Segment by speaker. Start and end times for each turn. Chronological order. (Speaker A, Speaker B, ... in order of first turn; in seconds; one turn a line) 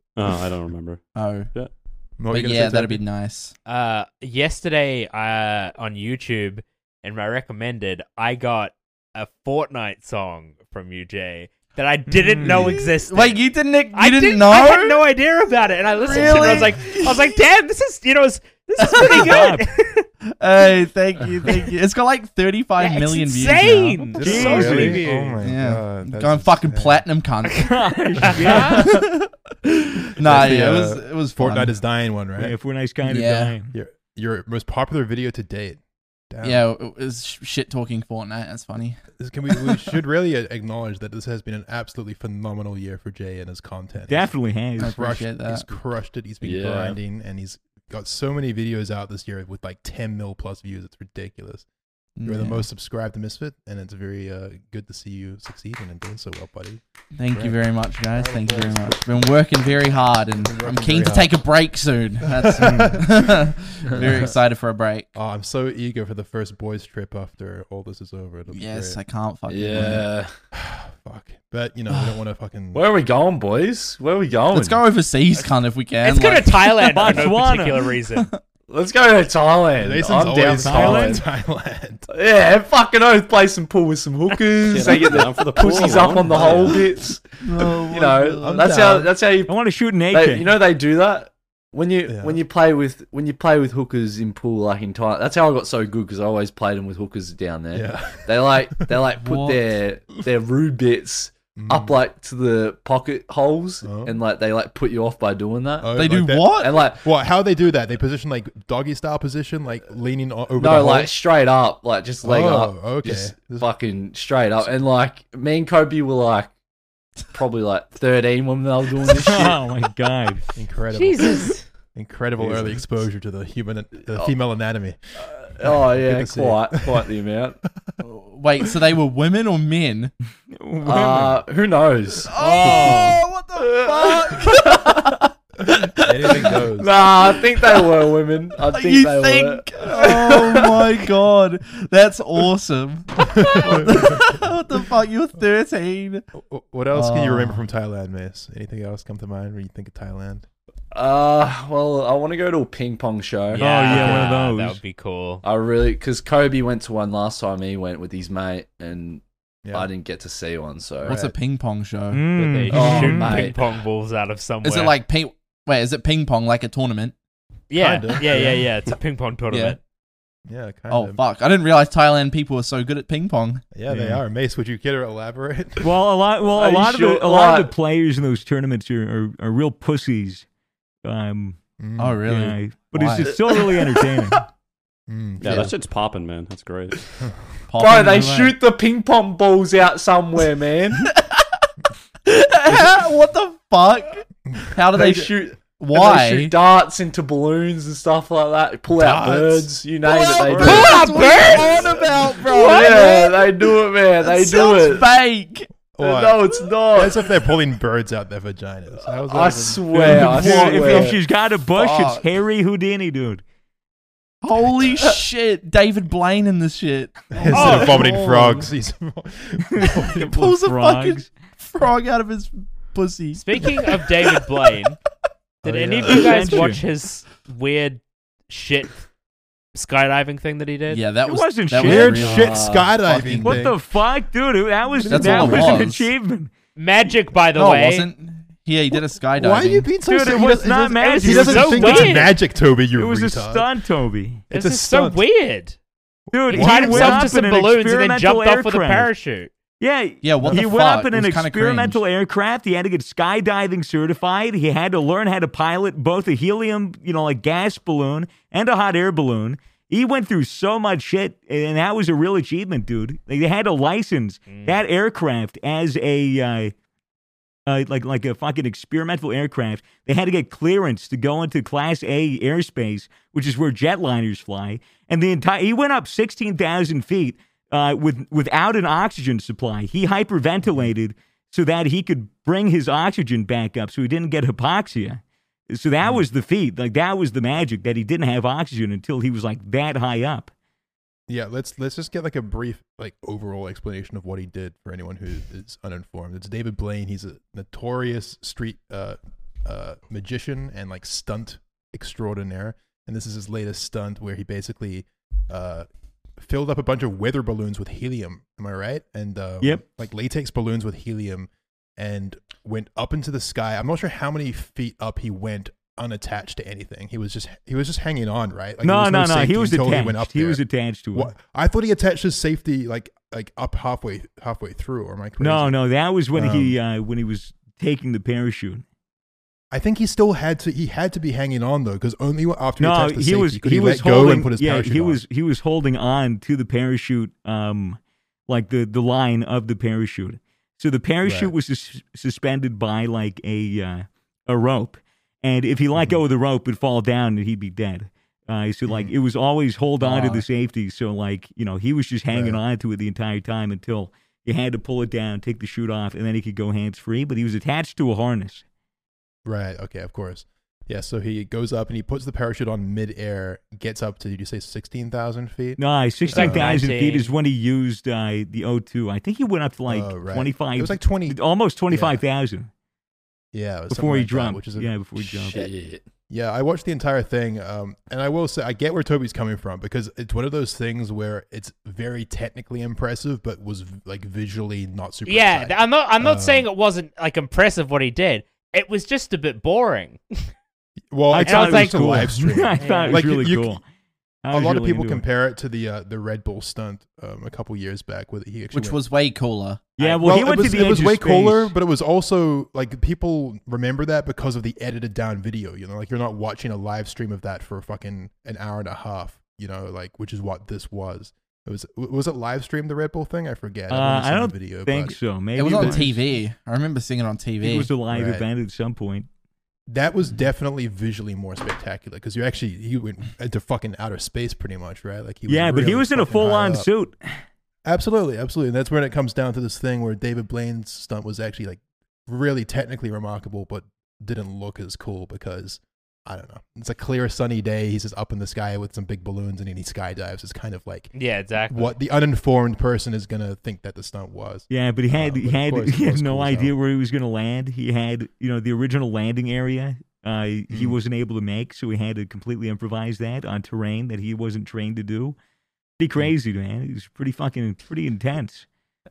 Speaker A: 0.1-1.7
Speaker B: 1.1-1.5
Speaker C: 2.2-3.0
Speaker B: 2.3-3.5
Speaker D: 3.6-20.1
Speaker E: 12.2-12.7
Speaker B: 12.4-15.0
Speaker B: 16.0-17.3
Speaker B: 18.8-19.3
Speaker E: 19.0-19.7
Speaker B: 20.2-24.0
Speaker D: 22.8-25.4
Speaker C: 24.2-27.0
Speaker E: 24.2-25.1
Speaker B: 25.4-27.8
Speaker E: 27.5-29.0
Speaker B: 28.3-31.8
Speaker D: 28.3-28.7
Speaker C: 30.2-32.5
Speaker E: 32.4-33.7
Speaker B: 33.0-33.5
Speaker C: 33.7-36.6
Speaker B: 36.4-39.9
Speaker C: 39.2-51.6
Speaker E: 44.1-45.0
Speaker B: 44.8-45.6
Speaker F: 46.4-47.0
Speaker B: 52.2-52.7
Speaker C: 52.2-57.6
Speaker B: 57.1-65.1
Speaker C: 58.1-59.2
Speaker C: 60.4-61.4
Speaker C: 62.3-64.3
Speaker C: 65.1-69.0
Speaker B: 68.5-70.1
Speaker F: 69.5-70.3
Speaker C: 70.5-72.8
Speaker F: 72.7-74.8
Speaker B: 74.5-77.2
Speaker D: 76.0-78.3
Speaker E: 76.9-77.9
Speaker F: 78.7-81.2
Speaker C: 79.8-82.1
Speaker E: 80.6-81.2
Speaker F: 82.1-89.6
Speaker A: 84.6-86.9
Speaker B: 87.4-88.7
Speaker C: 88.4-89.1
Speaker E: 89.5-90.5
Speaker F: 90.1-106.0
Speaker C: 92.1-92.4
Speaker C: 97.7-99.0
Speaker B: 99.2-99.6
Speaker C: 101.5-102.0
Speaker C: 103.8-104.2
Speaker C: 105.8-111.1
Speaker B: 105.9-106.8
Speaker F: 106.6-107.0
Speaker F: 110.6-116.5
Speaker C: 112.2-113.7
Speaker F: 117.3-119.6
Speaker E: 119.0-120.4
Speaker C: 120.5-125.0
Speaker D: 120.9-121.6
Speaker F: 122.4-123.0
Speaker F: 125.2-127.6
Speaker C: 125.5-127.1
Speaker B: 128.0-130.1
Speaker E: 130.5-131.4
Speaker F: 130.8-133.0
Speaker B: 132.2-135.3
Speaker E: 132.3-133.2
Speaker F: 133.6-135.1
Speaker F: 135.6-140.9
Speaker C: 135.9-136.9
Speaker B: 138.7-146.2
Speaker C: 143.2-144.5
Speaker C: 146.3-150.4
Speaker B: 146.9-147.6
Speaker F: 150.9-154.3
Speaker D: 153.5-155.4
Speaker E: 153.6-154.8
Speaker C: 153.9-154.3
Speaker F: 155.4-161.2
Speaker C: 159.6-159.9
Speaker C: 161.0-161.3
Speaker B: 161.0-162.2
Speaker E: 162.1-163.4
Speaker D: 162.3-165.0
Speaker F: 162.7-163.6
Speaker B: 164.6-167.1
Speaker D: 167.7-169.8
Speaker C: 167.8-168.7
Speaker B: 169.5-169.8
Speaker C: 170.5-171.2
Speaker B: 170.9-173.6
Speaker C: 173.7-175.9
Speaker E: 173.9-174.2
Speaker E: 175.8-180.4
Speaker F: 176.5-177.7
Speaker E: 181.0-181.6
Speaker C: 181.8-182.2
Speaker B: 182.0-183.8
Speaker E: 182.2-184.4
Speaker C: 185.1-185.7
Speaker A: 185.4-187.0
Speaker B: 187.7-188.6
Speaker F: 187.8-191.1
Speaker B: 191.1-191.7
Speaker B: 192.2-196.5
Speaker F: 194.9-201.9
Speaker C: 198.9-199.7
Speaker B: 200.1-205.7
Speaker C: 200.4-202.2
Speaker D: 200.6-201.9
Speaker D: 202.5-202.9
Speaker F: 202.5-205.1
Speaker C: 205.9-210.2
Speaker F: 206.0-207.3
Speaker F: 209.1-211.2
Speaker E: 209.9-213.4
Speaker B: 209.9-211.2
Speaker B: 211.7-212.3
Speaker B: 214.4-218.7
Speaker C: 214.7-215.1
Speaker C: 217.3-220.4
Speaker D: 217.5-218.1
Speaker E: 219.7-221.3
Speaker B: 220.0-224.0
Speaker D: 223.3-225.0
Speaker C: 225.6-226.7
Speaker D: 225.6-229.1
Speaker E: 226.1-226.8
Speaker D: 229.7-231.0
Speaker B: 230.9-233.7
Speaker E: 231.2-232.2
Speaker C: 231.8-233.8
Speaker F: 232.1-232.9
Speaker E: 233.4-236.5
Speaker C: 234.9-235.8
Speaker B: 235.1-236.1
Speaker D: 236.8-238.1
Speaker B: 237.5-239.9
Speaker C: 239.3-243.7
Speaker E: 240.1-242.3
Speaker D: 241.0-242.3
Speaker E: 242.9-244.4
Speaker C: 244.5-245.2
Speaker D: 244.5-245.8
Speaker C: 246.3-247.3
Speaker E: 246.3-249.1
Speaker D: 246.5-249.5
Speaker E: 249.8-266.7
Speaker B: 250.2-252.0
Speaker D: 264.5-264.8
Speaker E: 267.7-290.5
Speaker C: 280.6-280.9
Speaker C: 291.3-320.6
Speaker E: 318.8-321.3
Speaker C: 321.1-325.8
Speaker E: 325.4-328.8
Speaker C: 326.3-326.8
Speaker C: 329.7-335.2
Speaker E: 332.8-358.6
Speaker C: 341.2-341.5
Speaker C: 348.9-349.1
Speaker B: 350.0-350.4
Speaker C: 352.3-352.6
Speaker C: 359.4-366.8
Speaker E: 365.8-372.7
Speaker D: 366.3-367.3
Speaker C: 369.9-371.4
Speaker C: 371.9-372.2
Speaker C: 373.5-374.9
Speaker E: 373.9-375.7
Speaker F: 375.2-376.0
Speaker C: 376.3-386.7
Speaker D: 385.2-390.4
Speaker C: 391.1-393.8
Speaker E: 391.3-393.8
Speaker D: 391.4-393.2
Speaker E: 394.4-395.2
Speaker C: 394.5-399.0
Speaker B: 398.7-399.9
Speaker E: 400.0-401.7
Speaker C: 400.2-415.2
Speaker E: 413.9-416.3
Speaker B: 415.5-417.9
Speaker C: 415.7-416.0
Speaker E: 417.6-419.3
Speaker C: 418.1-418.4
Speaker C: 419.9-426.9
Speaker E: 425.5-427.4
Speaker C: 427.8-441.1
Speaker D: 441.1-441.9
Speaker C: 441.7-446.7
Speaker E: 444.7-455.4
Speaker C: 450.7-450.9
Speaker E: 456.0-458.6